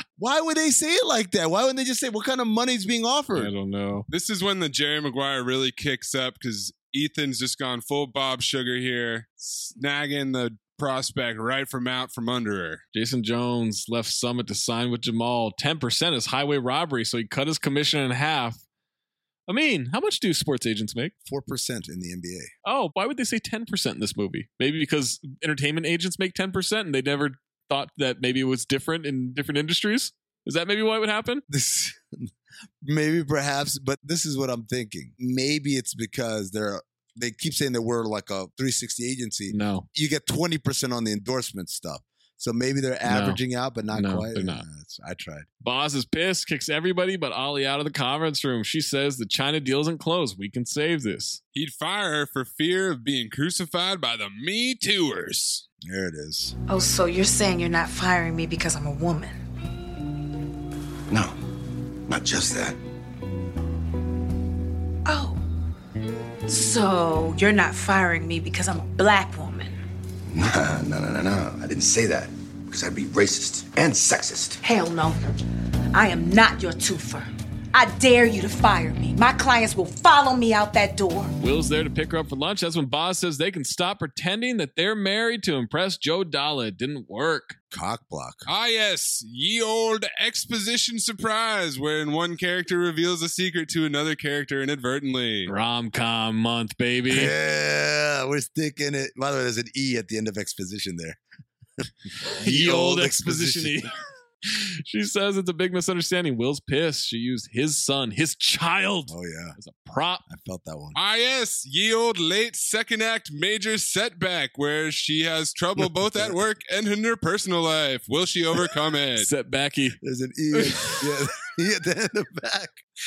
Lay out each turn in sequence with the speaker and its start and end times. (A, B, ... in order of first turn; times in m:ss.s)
0:00.2-0:03.5 A
0:03.3-0:04.1 B
0:04.1-0:12.8 C
0:12.9-0:18.6 B
0:19.5-0:21.1 B
0:21.2-0:22.5 A
0:22.6-0:31.4 B
0:31.5-0:32.3 A
0:32.8-0:45.5 A
0:39.5-0:39.9 B
0:43.0-0:43.4 B
0:43.9-0:44.6 B
0:45.6-0:51.4 B
0:51.5-0:55.6 C
0:55.8-0:56.5 A
0:56.7-0:59.4 D
1:01.1-1:01.3 E
1:02.1-1:02.8 E
1:05.0-1:05.4 D
1:06.5-1:09.8 D
1:10.3-1:14.6 E
1:14.6-1:15.2 D
1:15.9-1:21.3 D
1:21.4-1:27.6 B
1:27.7-1:28.4 A
1:28.5-1:35.5 C
1:35.5-1:37.3 B
1:37.1-1:41.2 A
1:42.3-1:43.9 A
1:42.4-1:43.9 B
1:44.5-1:50.2 B
1:49.1-1:49.6 A
1:50.3-1:51.0 A
1:51.0-1:59.3 C
1:59.2-2:00.0 B
2:00.0-2:02.8 A
2:00.5-2:01.0 B